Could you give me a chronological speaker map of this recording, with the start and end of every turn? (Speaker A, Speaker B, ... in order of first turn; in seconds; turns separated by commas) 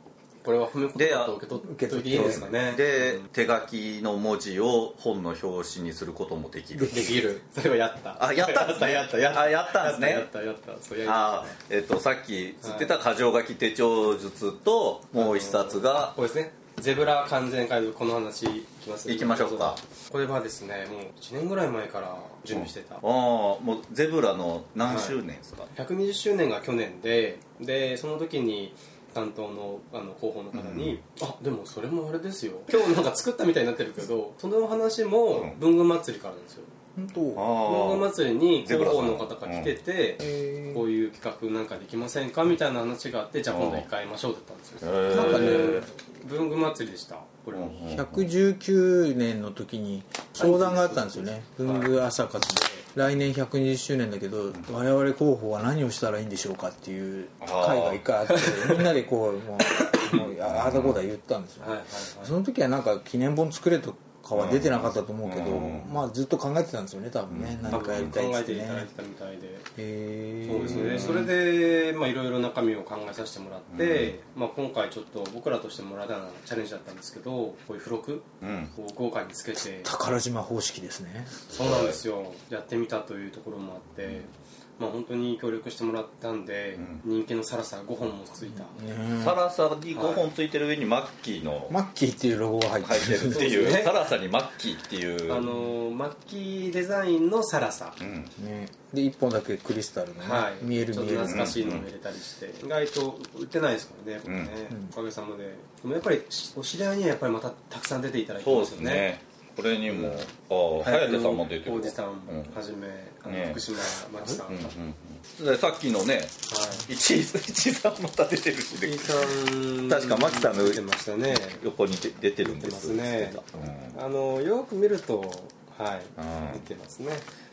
Speaker A: 0.4-3.3, Speaker B: 0.9-1.4, Speaker C: 1.6-2.5, Speaker B: 2.1-7.2, Speaker C: 6.8-7.1, Speaker A: 6.9-11.5, Speaker B: 8.2-10.3, Speaker B: 11.1-16.2, Speaker A: 12.6-12.9, Speaker A: 15.2-23.0, Speaker B: 19.1-19.8, Speaker B: 22.5-25.7, Speaker A: 24.8-25.2, Speaker A: 25.7-36.8, Speaker B: 30.5-31.0, Speaker C: 37.0-37.4, Speaker B: 37.4-39.8, Speaker A: 37.6-47.9, Speaker C: 40.2-40.9, Speaker B: 43.5-43.9, Speaker B: 44.8-45.9, Speaker C: 45.1-45.9, Speaker B: 47.5-48.3, Speaker C: 47.9-68.9, Speaker A: 50.4-52.0, Speaker B: 57.4-58.0, Speaker B: 60.2-61.0, Speaker A: 61.6-62.4, Speaker B: 64.3-65.9, Speaker B: 67.3-68.2, Speaker A: 67.7-69.7, Speaker C: 69.8-71.3, Speaker A: 70.5-79.9, Speaker B: 70.6-71.3, Speaker B: 73.7-74.1, Speaker B: 78.4-78.7, Speaker C: 79.8-81.4, Speaker A: 81.5-88.8, Speaker B: 81.5-82.0, Speaker C: 88.5-89.4, Speaker B: 89.2-91.8, Speaker A: 89.9-90.3, Speaker C: 91.7-93.8, Speaker B: 92.8-95.5, Speaker A: 93.3-94.0, Speaker A: 95.3-98.0, Speaker B: 98.0-98.3, Speaker C: 98.4-101.8, Speaker A: 100.2-109.1, Speaker B: 101.3-101.9, Speaker B: 104.2-104.5, Speaker B: 108.4-112.6, Speaker A: 109.9-110.2, Speaker A: 110.8-114.7, Speaker B: 113.2-124.0, Speaker A: 116.5-116.9, Speaker A: 118.8-121.6, Speaker A: 122.4-123.4, Speaker A: 123.9-127.3, Speaker B: 126.2-126.7